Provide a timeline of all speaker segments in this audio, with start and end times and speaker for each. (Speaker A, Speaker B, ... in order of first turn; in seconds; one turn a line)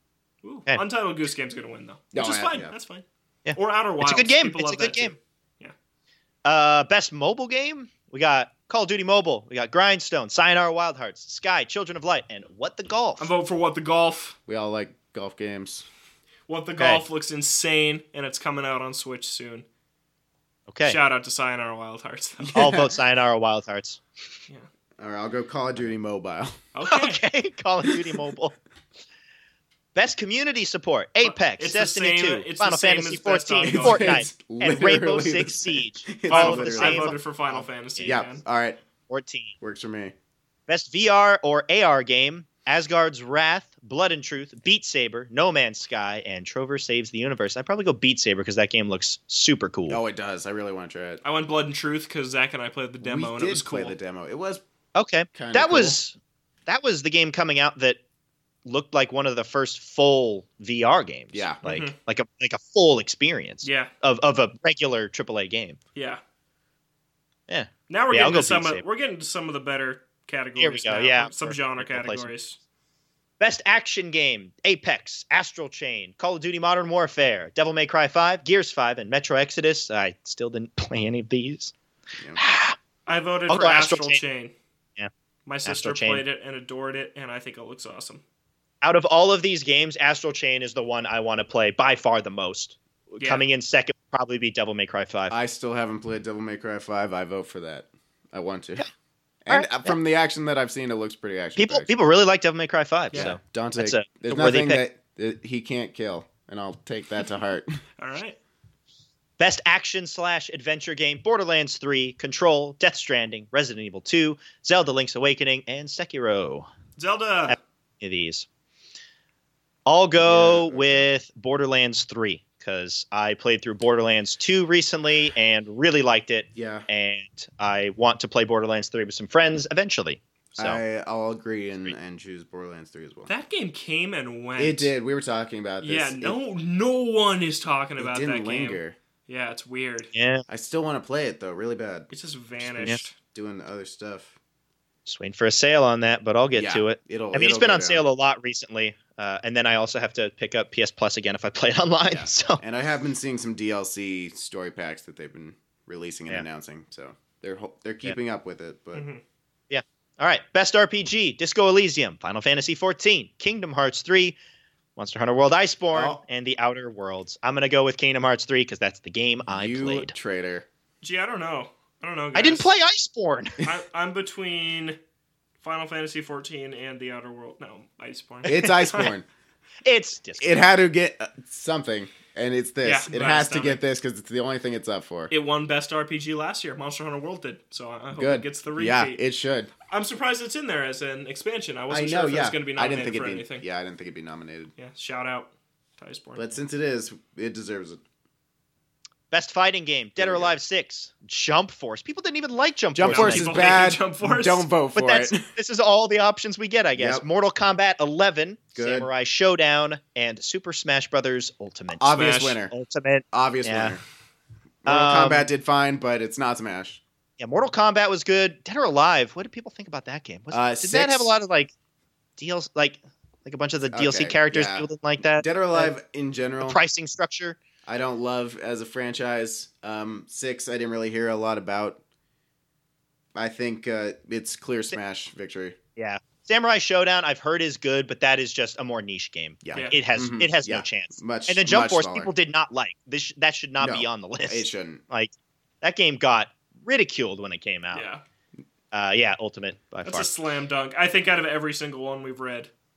Speaker A: 0.4-3.0
Speaker B: 2.1-2.7
Speaker C: 3.4-5.1
Speaker A: 3.5-5.7
Speaker C: 6.4-13.3
Speaker A: 13.2-14.4
Speaker B: 14.5-15.8
Speaker A: 16.5-19.6
Speaker C: 16.8-17.0
Speaker C: 20.7-21.0
Speaker A: 20.8-22.8
Speaker B: 22.5-22.9
Speaker C: 22.5-24.0
Speaker B: 25.0-26.6
Speaker A: 26.7-27.2
Speaker C: 26.9-28.5
Speaker C: 29.9-38.1
Speaker A: 31.2-34.2
Speaker B: 33.6-37.1
Speaker A: 36.3-38.4
Speaker B: 38.0-38.8
Speaker C: 39.1-39.5
Speaker B: 39.6-40.1
Speaker C: 40.7-50.0
Speaker B: 49.9-51.2
Speaker A: 51.2-53.9
Speaker B: 53.0-54.6
Speaker C: 54.9-56.1
Speaker B: 55.3-56.0
Speaker C: 56.7-58.0
Speaker C: 58.6-65.8
Speaker B: 61.3-61.6
Speaker A: 61.6-61.9
Speaker A: 63.6-63.9
Speaker A: 65.9-66.2
Speaker C: 67.5-68.8
Speaker A: 67.9-72.6
Speaker C: 70.6-72.3
Speaker C: 73.4-81.7
Speaker C: 82.3-82.8
Speaker A: 83.0-84.5
Speaker C: 83.5-84.2
Speaker A: 85.5-88.2
Speaker C: 85.6-86.2
Speaker C: 88.8-95.4
Speaker B: 95.3-98.9
Speaker B: 99.4-101.9
Speaker C: 99.5-100.0
Speaker C: 101.5-104.8
Speaker B: 103.1-107.8
Speaker A: 108.0-108.4
Speaker C: 109.4-116.7
Speaker A: 117.0-117.6
Speaker C: 117.5-118.5
Speaker C: 119.8-130.8
Speaker B: 120.2-121.1
Speaker B: 126.5-126.9
Speaker B: 130.6-133.3
Speaker A: 133.3-134.9
Speaker B: 134.6-136.3
Speaker A: 135.8-140.1
Speaker B: 138.0-138.9
Speaker C: 140.1-140.4
Speaker B: 140.5-144.3
Speaker A: 142.1-143.2
Speaker C: 145.1-152.6
Speaker B: 146.6-148.0
Speaker B: 152.1-159.0
Speaker A: 158.9-159.2
Speaker C: 159.7-164.4
Speaker C: 164.9-170.1
Speaker B: 165.9-166.2
Speaker B: 169.5-170.7
Speaker A: 171.0-172.7
Speaker C: 172.3-173.7
Speaker A: 173.6-175.0
Speaker A: 175.6-179.1
Speaker B: 178.4-179.2
Speaker C: 179.8-180.7
Speaker B: 180.4-185.3
Speaker A: 182.8-183.8
Speaker A: 185.3-189.2
Speaker B: 188.1-189.7
Speaker A: 189.9-193.7
Speaker B: 191.9-194.7
Speaker A: 194.8-196.6
Speaker B: 196.3-198.0
Speaker C: 199.3-203.7
Speaker B: 200.2-200.6
Speaker B: 202.9-205.4
Speaker A: 203.1-204.7
Speaker C: 204.9-214.0
Speaker B: 207.0-207.2
Speaker B: 208.7-209.1
Speaker B: 211.9-212.7
Speaker A: 212.1-212.6
Speaker B: 213.3-214.0
Speaker C: 214.8-215.5
Speaker B: 214.8-217.0
Speaker C: 217.4-221.7
Speaker B: 220.5-221.3
Speaker C: 222.4-225.9
Speaker B: 223.9-226.8
Speaker C: 226.6-227.6
Speaker B: 227.8-232.0
Speaker B: 233.3-235.8
Speaker C: 235.9-248.1
Speaker B: 239.6-242.3
Speaker B: 243.8-245.0
Speaker A: 247.9-248.2
Speaker C: 248.9-250.3
Speaker A: 250.1-252.7